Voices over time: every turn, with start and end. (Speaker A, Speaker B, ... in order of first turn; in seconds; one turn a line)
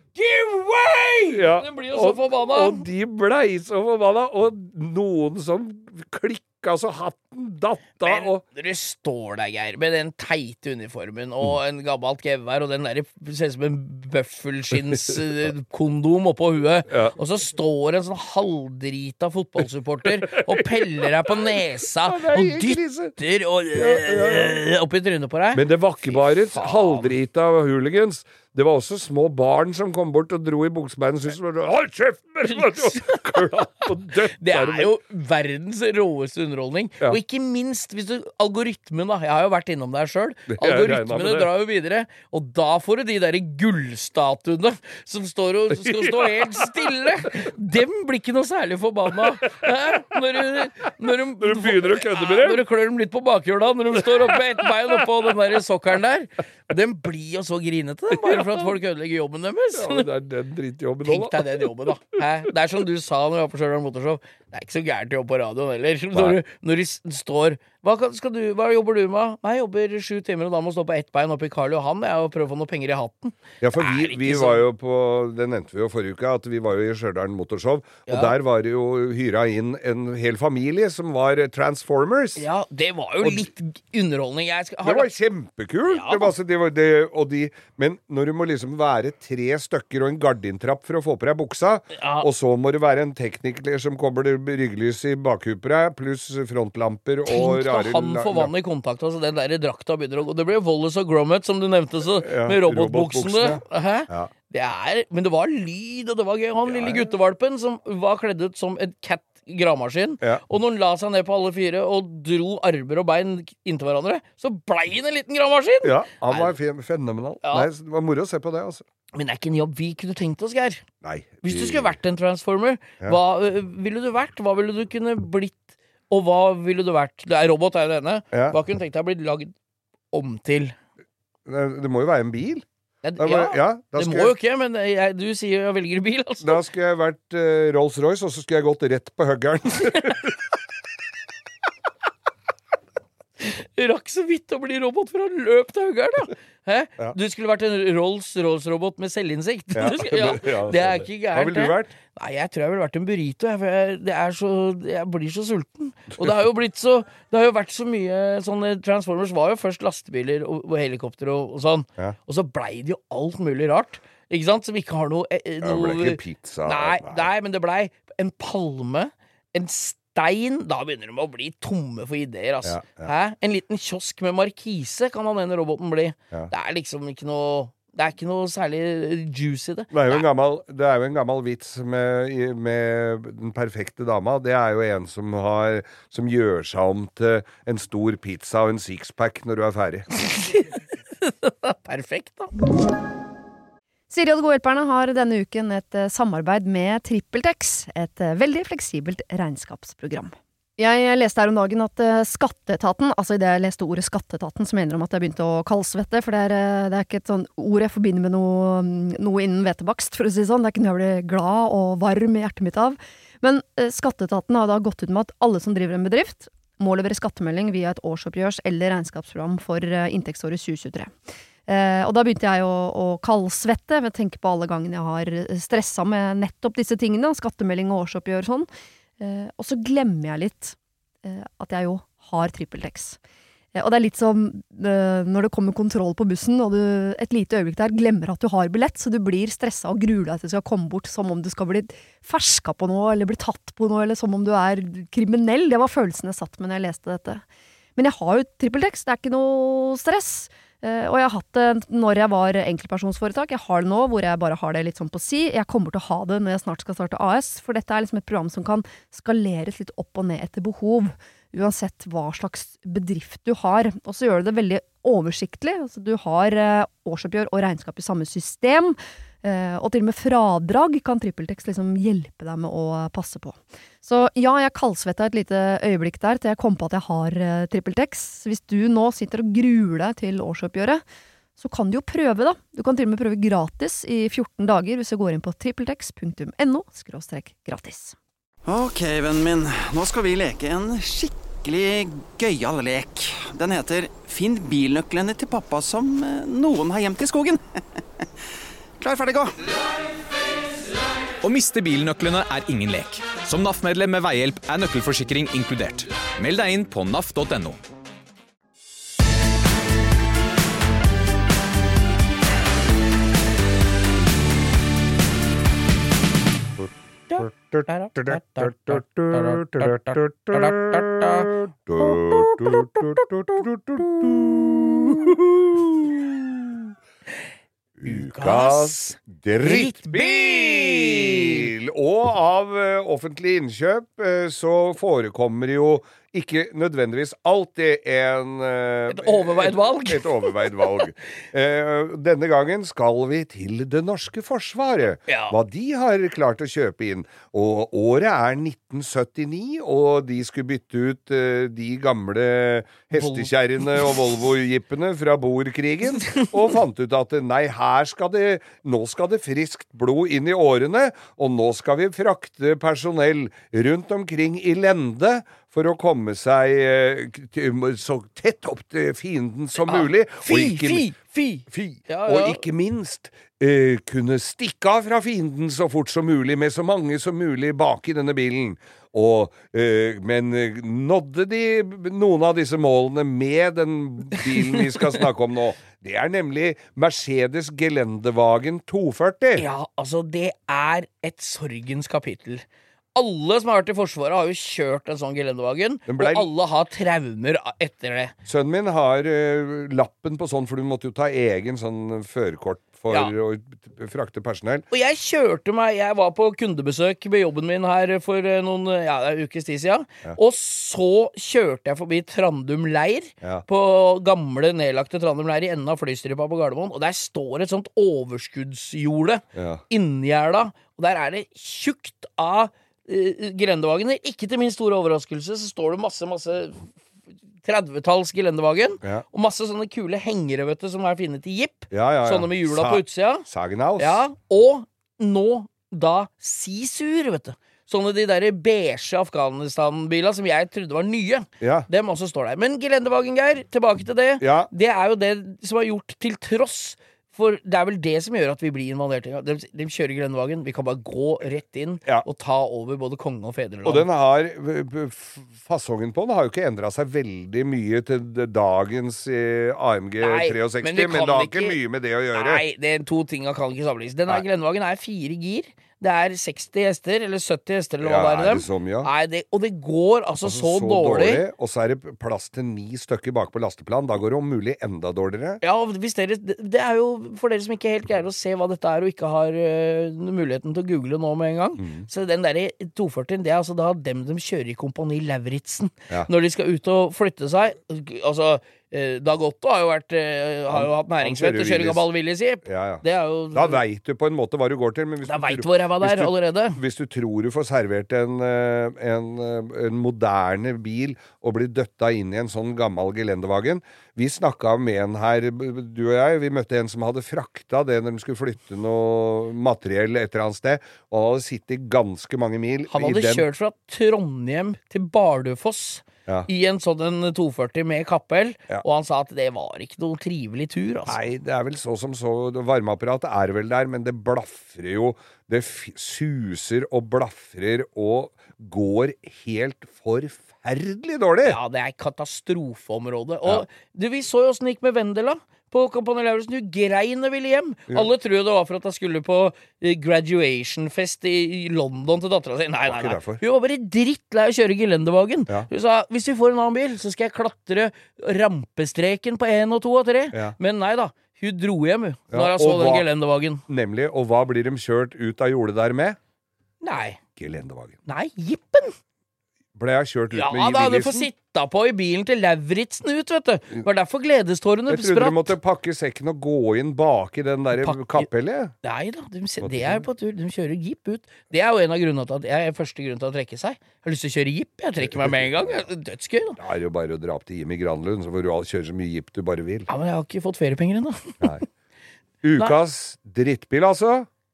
Speaker A: 0.1-2.9
Speaker B: 1.3-8.4
Speaker A: 8.0-27.1
Speaker B: 14.7-15.2
Speaker B: 16.9-17.2
Speaker B: 20.2-23.2
Speaker B: 23.8-24.6
Speaker B: 25.5-34.9
Speaker A: 32.5-33.4
Speaker A: 34.4-60.1
Speaker B: 40.5-41.5
Speaker B: 45.7-47.3
Speaker B: 49.1-52.6
Speaker B: 54.0-55.4
Speaker B: 58.1-58.7
Speaker B: 59.7-61.9
Speaker A: 61.0-74.7
Speaker B: 66.1-66.4
Speaker B: 73.6-82.5
Speaker A: 78.1-78.3
Speaker A: 82.4-85.1
Speaker B: 83.2-83.5
Speaker B: 84.8-98.5
Speaker A: 85.9-86.3
Speaker A: 92.0-92.3
Speaker A: 97.3-116.5
Speaker B: 102.1-104.3
Speaker B: 106.7-107.1
Speaker B: 115.8-118.8
Speaker A: 117.4-117.7
Speaker A: 119.1-120.8
Speaker B: 121.0-122.0
Speaker A: 121.4-129.5
Speaker B: 128.3-128.6
Speaker A: 130.1-130.8
Speaker B: 131.5-132.7
Speaker A: 133.0-136.6
Speaker B: 133.2-134.3
Speaker B: 136.4-140.4
Speaker A: 143.4-180.2
Speaker B: 149.8-151.9
Speaker B: 165.6-167.3
Speaker B: 172.6-173.1
Speaker B: 179.9-190.1
Speaker A: 190.3-192.5
Speaker C: 194.1-221.1
Speaker C: 221.7-228.7
Speaker C: 229.2-233.2
Speaker C: 233.8-247.4
Speaker C: 248.0-281.0
Speaker C: 281.6-288.2
Speaker D: 288.7-297.8
Speaker D: 299.0-299.6
Speaker E: 301.4-307.8
Speaker B: 316.8-326.9
Speaker A: 317.3-324.1
Speaker B: 328.0-371.1
Speaker A: 328.1-331.7
Speaker A: 339.1-341.0
Speaker A: 345.3-345.6
Speaker A: 353.1-354.1
Speaker A: 369.8-372.6
Speaker B: 371.7-389.7
Speaker A: 389.6-392.6
Speaker A: 393.1-398.4
Speaker B: 396.1-396.5
Speaker B: 398.5-404.9
Speaker A: 404.9-426.9
Speaker B: 419.5-419.8
Speaker A: 427.6-433.5
Speaker B: 431.9-434.2
Speaker A: 434.0-454.1
Speaker B: 441.6-441.9
Speaker B: 444.4-444.7
Speaker B: 453.8-462.6
Speaker A: 460.2-461.8
Speaker A: 462.3-471.4
Speaker B: 468.0-469.1
Speaker B: 470.4-475.6
Speaker A: 475.6-493.8
Speaker B: 481.8-482.1
Speaker B: 490.7-492.1
Speaker B: 492.6-513.5
Speaker A: 495.2-496.8
Speaker A: 512.9-521.2
Speaker B: 521.1-531.6
Speaker A: 531.4-553.6
Speaker B: 542.9-543.4
Speaker B: 552.3-553.1
Speaker B: 553.7-556.2
Speaker A: 556.8-557.2
Speaker B: 557.4-558.0
Speaker A: 558.1-558.9
Speaker B: 559.8-561.3
Speaker A: 560.3-565.5
Speaker B: 564.9-568.7
Speaker A: 567.8-568.3
Speaker A: 568.8-576.6
Speaker B: 569.6-570.1
Speaker B: 575.0-575.9
Speaker B: 576.6-579.9
Speaker A: 579.9-581.6
Speaker B: 582.4-584.3